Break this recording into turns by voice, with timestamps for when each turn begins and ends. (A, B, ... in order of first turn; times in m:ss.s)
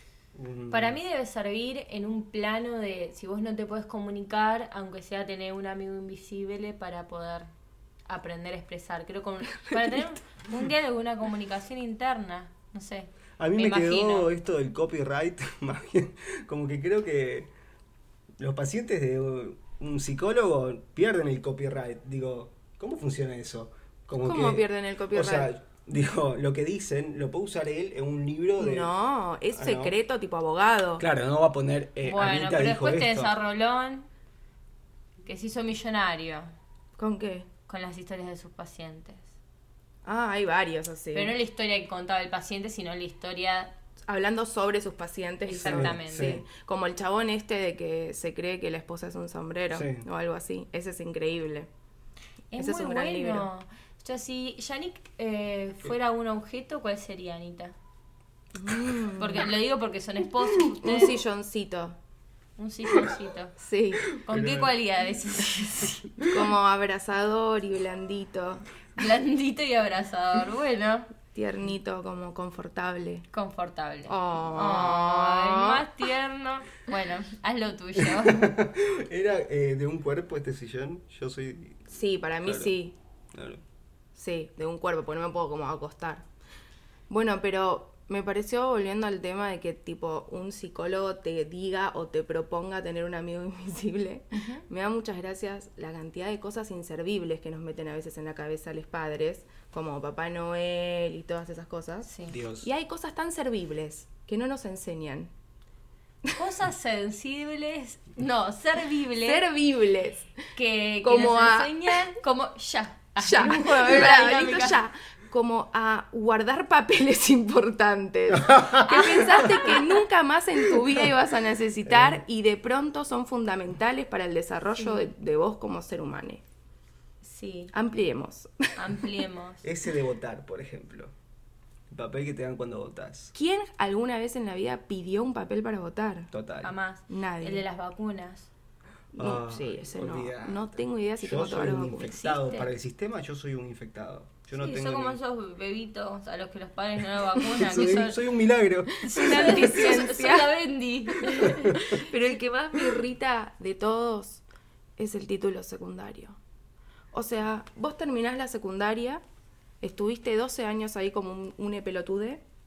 0:00.4-0:01.0 A
0:00.7-0:07.5 B
0:08.1-0:14.3 B
0:09.6-0:10.0 C
0:13.4-0:17.5 A
0:18.4-0:28.9 A
0:24.2-0:25.5 C
0:28.6-0:31.0 C
0:29.5-0:30.0 A
0:31.0-0:33.3 A
0:32.0-0:34.1 B
0:35.2-0:36.5 B
0:37.0-0:37.5 C
0:37.7-0:39.3 B
0:40.0-0:41.3 C
0:41.1-0:43.8 B
0:44.1-0:51.7 C
0:45.5-0:46.4 B
0:45.6-0:46.4 A
0:49.7-0:50.0 A
0:52.5-0:57.8 B
0:52.6-0:53.4 C
0:58.5-0:59.5 C
0:59.2-1:01.2 B
1:00.8-1:02.0 C
1:02.6-1:03.6 B
1:03.6-1:04.1 C
1:04.1-1:06.1 B
1:04.2-1:04.8 A
1:06.3-1:08.7 C
1:09.0-1:11.1 B
1:11.3-1:13.2 C
1:13.3-1:18.6 B
1:14.1-1:15.8 C
1:18.0-1:21.8 A
1:21.9-1:23.0 C
1:22.4-1:22.7 A
1:23.3-1:23.6 A
1:24.2-1:26.2 C
1:27.1-1:42.1 C
1:34.4-1:34.6 B
1:42.1-1:42.4 B
1:42.3-1:42.7 A
1:42.6-1:45.3 C
1:46.4-1:49.5 B
1:49.2-1:50.3 C
1:50.5-1:54.8 B
1:51.0-1:52.1 C
1:53.2-2:06.4 C
1:58.3-1:59.1 A
1:58.9-1:59.8 B
2:01.9-2:02.2 A
2:04.8-2:05.1 B
2:07.2-2:07.7 B
2:07.7-2:08.9 C
2:08.8-2:09.6 B
2:09.6-2:11.1 A
2:11.9-2:13.3 A
2:13.3-2:16.3 C
2:16.3-2:16.7 A
2:16.6-2:18.5 B
2:17.1-2:17.6 C
2:19.1-2:22.1 C
2:19.2-2:25.2 A
2:22.0-2:22.7 B
2:24.5-2:28.2 B
2:27.6-2:29.6 A
2:29.0-2:30.5 C
2:29.0-2:32.2 B
2:31.2-2:34.4 C
2:31.4-2:31.8 A
2:35.0-2:36.4 C
2:37.1-2:39.2 C
2:39.8-2:42.4 C